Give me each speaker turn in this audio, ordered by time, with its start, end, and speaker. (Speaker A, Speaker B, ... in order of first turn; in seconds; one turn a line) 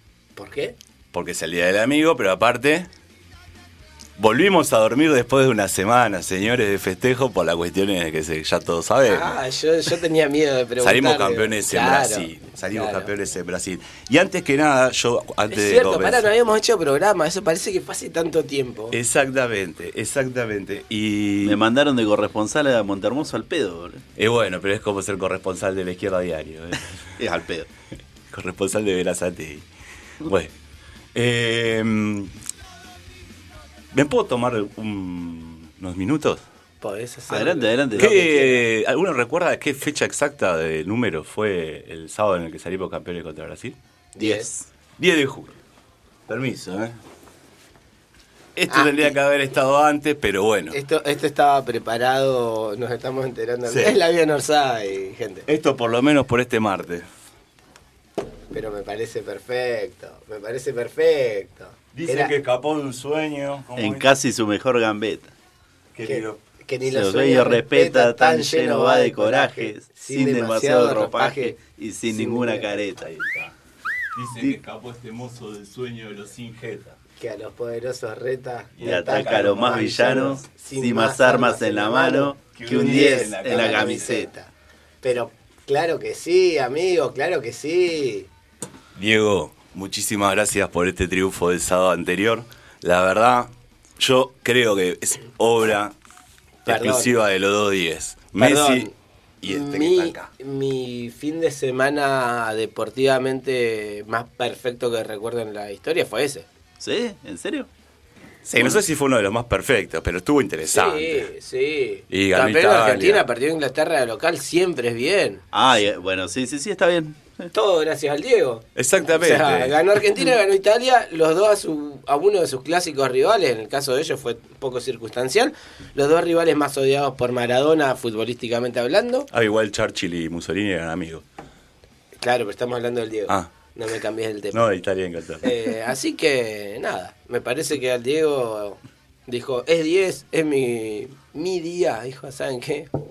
Speaker A: 0.3-0.7
Speaker B: 1.1-2.9
Speaker B: 4.2-9.3
Speaker A: 9.0-13.1
Speaker B: 10.8-16.3
Speaker A: 15.5-19.0
Speaker B: 18.9-21.6
Speaker C: 21.4-24.0
Speaker B: 24.2-27.0
Speaker C: 27.2-27.7
Speaker B: 28.3-29.7
Speaker B: 30.2-30.5
Speaker B: 31.1-32.3
Speaker B: 33.9-36.4
Speaker A: 36.8-38.6
Speaker C: 37.3-38.3
Speaker B: 38.0-43.8
Speaker A: 44.1-44.5
Speaker B: 45.0-45.5
Speaker B: 46.3-47.0
Speaker B: 48.5-50.8
Speaker A: 48.7-49.1
Speaker A: 50.7-55.5
Speaker B: 53.6-53.9
Speaker B: 55.5-57.0
Speaker A: 58.5-62.3
Speaker B: 61.9-64.1
Speaker C: 63.8-65.3
Speaker B: 65.9-66.4
Speaker A: 66.0-72.8
Speaker C: 66.8-73.1
Speaker B: 72.9-73.5
Speaker B: 74.1-77.0
Speaker A: 77.2-84.5
Speaker B: 78.8-80.4
Speaker C: 78.8-84.3
Speaker B: 82.5-84.2
Speaker A: 85.0-88.3
Speaker B: 89.0-95.9
Speaker A: 96.7-97.1
Speaker B: 96.7-98.9
Speaker A: 98.4-106.5
Speaker B: 99.4-100.3
Speaker C: 106.8-107.7
Speaker B: 108.5-111.3
Speaker A: 110.7-115.4
Speaker B: 112.1-113.2
Speaker C: 115.5-117.5
Speaker A: 117.5-129.3
Speaker B: 118.8-119.9
Speaker B: 129.3-131.2
Speaker A: 132.2-134.6
Speaker B: 134.5-135.5
Speaker A: 135.4-142.9